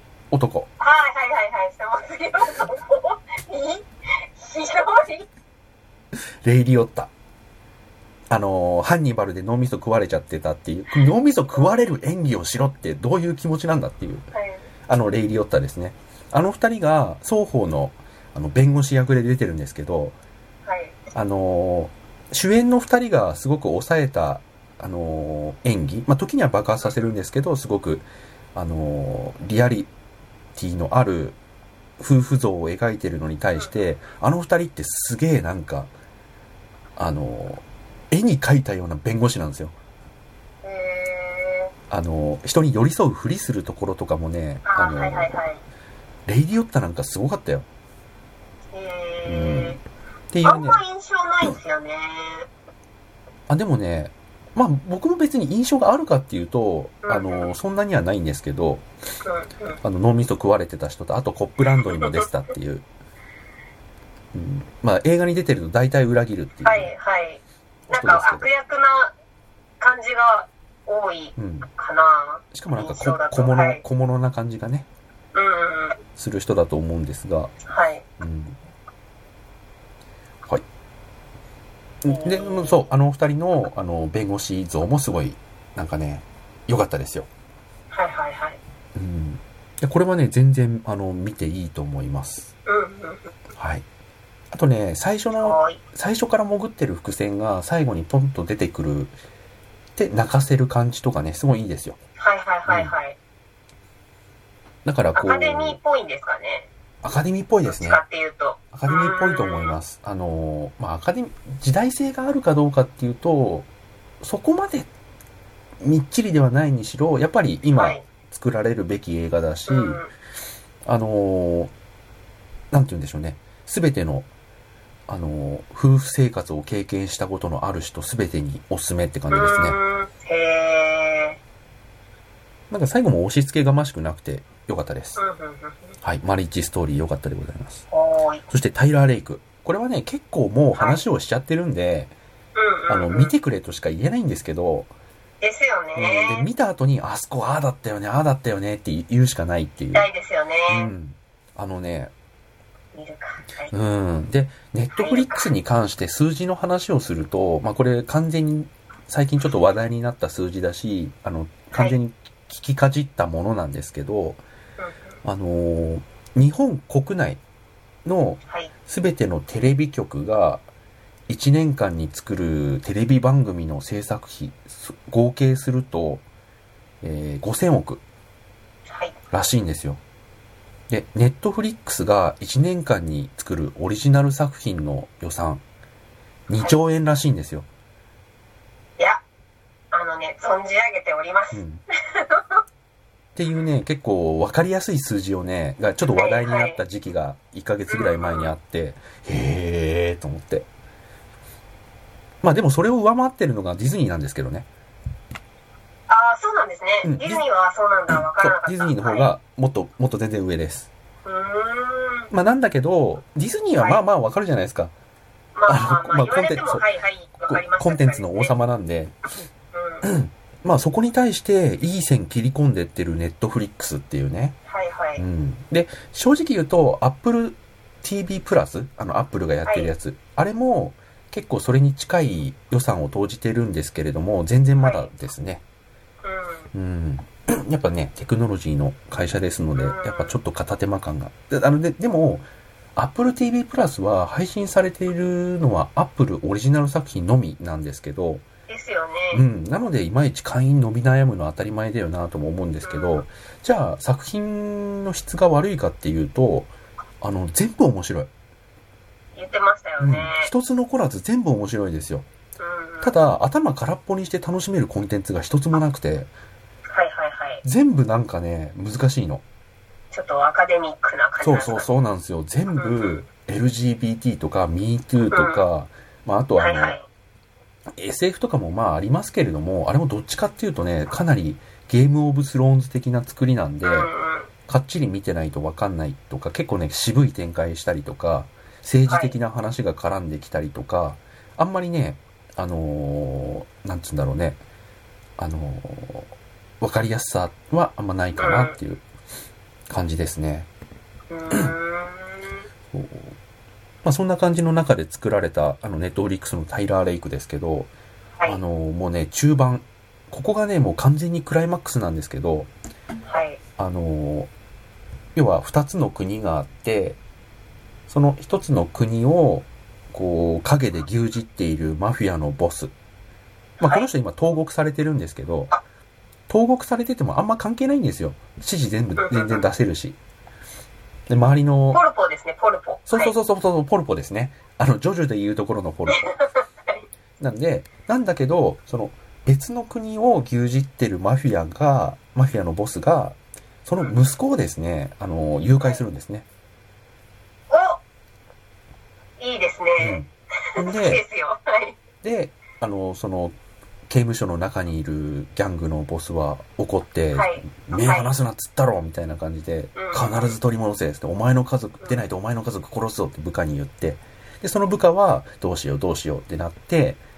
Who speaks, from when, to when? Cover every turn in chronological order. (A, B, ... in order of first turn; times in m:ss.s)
0:00.3-0:00.7 A
0:00.8-0:05.3 B
0:06.4-0:07.1 A
0:08.3-0:14.3 A
0:14.3-0:14.7 B
0:14.9-0:20.2 A
0:20.7-0:21.0 B
0:21.1-0:29.9 A
0:30.6-0:31.4 A
0:32.0-0:35.9 A
0:33.5-0:33.8 B
0:37.0-0:39.7 A
0:40.6-0:41.7 B
0:41.9-0:45.4 A
0:44.6-0:45.6 B
0:46.3-0:47.7 A
0:48.7-0:49.8 B
0:49.2-0:49.8 A
0:50.3-0:50.8 A
0:50.4-0:52.5 B
0:53.5-0:58.9 A
0:57.0-0:57.5 B
0:59.2-0:59.8 B
0:59.8-1:02.8 A
1:01.6-1:02.3 B
1:04.3-1:06.9 A
1:06.6-1:09.1 B
1:07.9-1:08.5 A
1:09.8-1:13.8 B
1:11.4-1:11.7 A
1:12.5-1:14.9 A
1:15.3-1:16.0 B
1:16.2-1:17.5 A
1:17.7-1:18.0 B
1:18.2-1:18.6 A
1:22.0-1:27.3 A
1:22.1-1:22.9 B
1:27.9-1:28.6 B
1:28.9-1:32.5 A
1:32.7-1:33.3 B
1:33.6-1:33.9 A
1:34.5-1:39.2 A
1:35.4-1:35.8 B
1:40.0-1:42.0 A
1:42.2-1:43.2 B
1:42.7-1:42.9 A
1:44.8-1:45.8 A
1:45.1-1:46.7 B
1:47.0-1:48.0 A
1:47.6-1:49.8 B
1:48.7-1:53.7 A
1:54.2-1:54.9 A
1:55.8-2:00.0 A
1:57.7-1:58.0 B
1:59.7-2:00.1 B
2:00.8-2:01.7 A
2:02.7-2:04.3 A
2:05.1-2:09.8 A
2:09.3-2:11.4 B
2:12.7-2:15.2 A
2:15.2-2:16.0 B
2:16.0-2:17.8 A
2:17.9-2:18.4 B
2:18.5-2:22.1 A
2:20.7-2:21.0 B
2:22.5-2:23.3 B
2:22.9-2:24.9 A
2:25.4-2:26.5 B
2:26.0-2:30.1 A
2:29.9-2:30.9 B
2:30.7-2:32.1 A
2:32.9-2:33.7 B
2:33.7-2:44.4 A
2:34.9-2:35.5 B
2:44.8-2:45.2 B
2:45.2-2:47.4 A
2:48.0-2:50.6 A
2:51.3-2:56.2 A
2:57.0-2:58.0 A
2:58.9-2:59.2 B
2:59.3-3:00.0 A
3:00.9-3:05.6 A
3:06.5-3:07.7 A
3:09.9-3:12.6 B
3:11.5-3:11.8 A
3:13.4-3:20.7 A
3:16.0-3:16.8 B
3:17.9-3:18.5 B
3:22.4-3:24.7 A
3:26.1-3:29.3 B
3:27.0-3:27.4 A
3:28.1-3:30.9 A
3:31.2-3:32.3 B
3:32.3-3:34.9 A
3:35.5-3:38.5 B
3:35.7-3:36.8 A
3:37.4-3:39.2 A
3:39.7-3:40.1 B
3:40.0-3:44.6 A
3:44.7-3:45.2 B
3:45.2-3:55.6 A
3:49.6-3:49.9 B
3:54.8-3:55.1 B
3:56.2-3:56.7 B
3:56.7-4:08.4 A
3:59.8-4:00.4 B
4:08.7-4:09.4 B
4:09.3-4:18.3 A
4:12.8-4:13.2 B
4:19.4-4:20.5 B
4:20.0-4:22.3 A
4:22.6-4:23.2 B
4:23.0-4:26.3 A
4:26.9-4:27.6 B
4:27.6-4:29.4 A
4:30.1-4:31.9 B
4:31.4-4:37.0 A
4:32.7-4:33.2 B
4:35.3-4:35.6 B
4:36.6-4:37.1 B
4:37.9-4:44.1 A
4:43.8-4:44.5 B
4:44.7-4:54.6 A
4:49.1-4:49.4 B
4:55.4-4:56.3 A
4:56.8-4:59.0 A
4:58.4-4:58.8 B
4:59.9-5:00.7 A
5:01.3-5:02.7 B
5:02.9-5:03.4 A
5:04.0-5:07.9 A
5:08.4-5:12.7 A
5:13.2-5:13.6 B
5:13.8-5:14.5 A
5:15.4-5:17.2 A
5:18.1-5:22.9 A
5:23.8-5:24.1 B
5:23.8-5:25.7 A
5:26.5-5:30.2 A
5:29.2-5:29.7 B
5:31.3-5:32.0 A
5:31.9-5:33.4 B
5:33.1-5:36.3 A
5:36.1-5:37.1 B
5:37.4-5:46.5 A
5:44.0-5:44.2 B
5:47.7-5:48.0 B
5:49.4-5:52.0 B
5:50.0-5:51.2 A
5:52.2-5:53.5 A
5:54.1-6:07.2 A
5:57.3-5:58.3 B
6:00.0-6:00.6 B